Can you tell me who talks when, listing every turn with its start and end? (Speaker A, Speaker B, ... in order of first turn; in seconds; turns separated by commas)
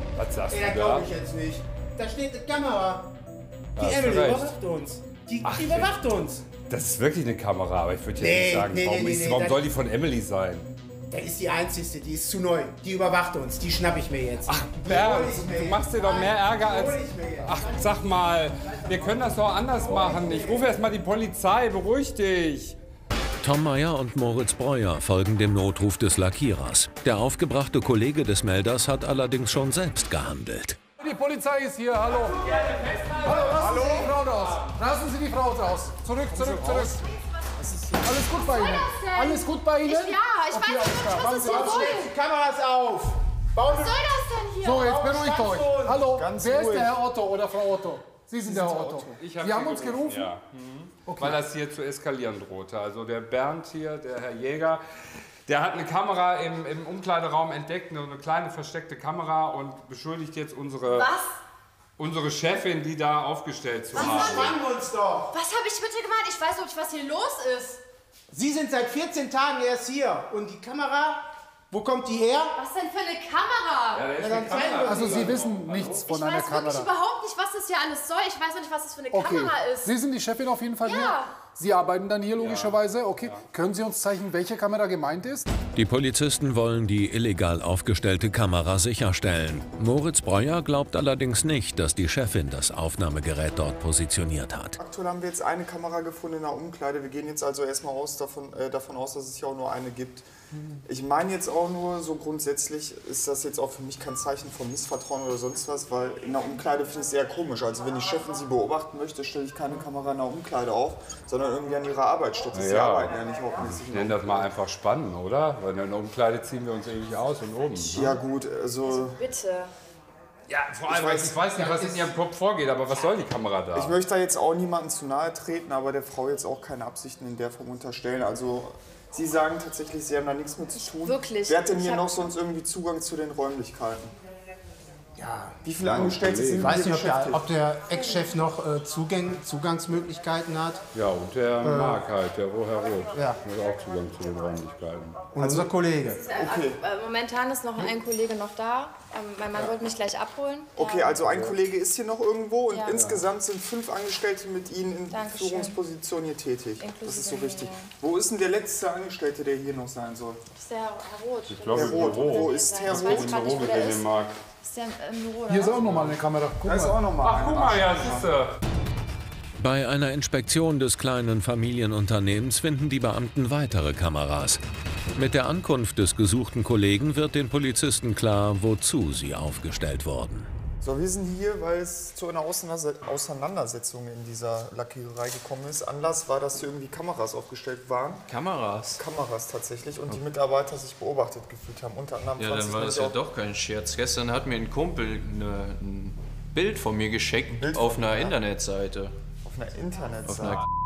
Speaker A: 0.2-1.1, Speaker B: 0.5-3.1, Speaker B: 3.8-6.5, Speaker A: 3.8-4.6, Speaker A: 5.4-5.9, Speaker A: 6.5-10.7, Speaker B: 8.2-9.7, Speaker B: 11.1-20.9, Speaker A: 14.5-22.8, Speaker C: 23.4-30.8, Speaker D: 31.0-37.0, Speaker B: 33.0-33.5, Speaker E: 33.6-34.1, Speaker E: 36.3-38.3, Speaker D: 38.0-41.8, Speaker F: 38.2-42.2, Speaker B: 40.7-44.2, Speaker F: 43.7-44.9, Speaker D: 44.6-50.3, Speaker B: 44.8-46.1, Speaker E: 46.1-47.0, Speaker E: 48.4-49.2, Speaker A: 49.2-54.8, Speaker D: 51.1-51.4, Speaker A: 55.5-61.1, Speaker F: 60.8-61.4, Speaker A: 62.0-64.5, Speaker F: 63.9-64.6, Speaker B: 64.0-65.4, Speaker F: 65.3-67.8, Speaker B: 68.3-72.5, Speaker F: 72.6-74.1, Speaker A: 73.9-76.1, Speaker B: 74.1-75.4, Speaker D: 74.9-76.9, Speaker F: 76.1-79.9, Speaker D: 79.1-85.5, Speaker F: 80.8-81.3, Speaker A: 82.4-83.4, Speaker C: 85.8-94.8, Speaker E: 94.8-100.3, Speaker E: 100.9-114.5, Speaker A: 112.5-118.1, Speaker E: 117.8-119.2, Speaker F: 118.8-119.7, Speaker A: 120.5-124.0, Speaker E: 120.9-121.5, Speaker B: 121.5-122.2, Speaker E: 123.7-134.1, Speaker F: 131.0-132.1, Speaker B: 135.2-135.6, Speaker E: 135.6-137.5, Speaker A: 135.8-136.7, Speaker B: 136.6-140.8, Speaker A: 140.9-145.3, Speaker B: 141.6-142.0, Speaker E: 143.1-143.4, Speaker B: 145.3-146.2, Speaker E: 145.4-145.7, Speaker F: 146.1-151.2, Speaker E: 146.3-146.8, Speaker E: 150.8-160.4, Speaker A: 151.2-151.6, Speaker F: 152.7-153.0, Speaker A: 153.0-153.2, Speaker F: 155.1-155.8, Speaker F: 156.8-157.9, Speaker F: 160.5-164.1, Speaker A: 161.5-164.4, Speaker E: 161.7-163.4, Speaker F: 164.6-166.1, Speaker D: 165.5-167.0, Speaker E: 166.6-168.3, Speaker A: 167.2-168.5, Speaker C: 169.6-174.6, Speaker C: 175.2-180.5, Speaker E: 180.8-188.3, Speaker G: 188.3-189.0, Speaker E: 188.9-193.2, Speaker G: 192.4-199.2, Speaker E: 197.5-198.4, Speaker E: 199.4-200.7, Speaker G: 200.3-200.7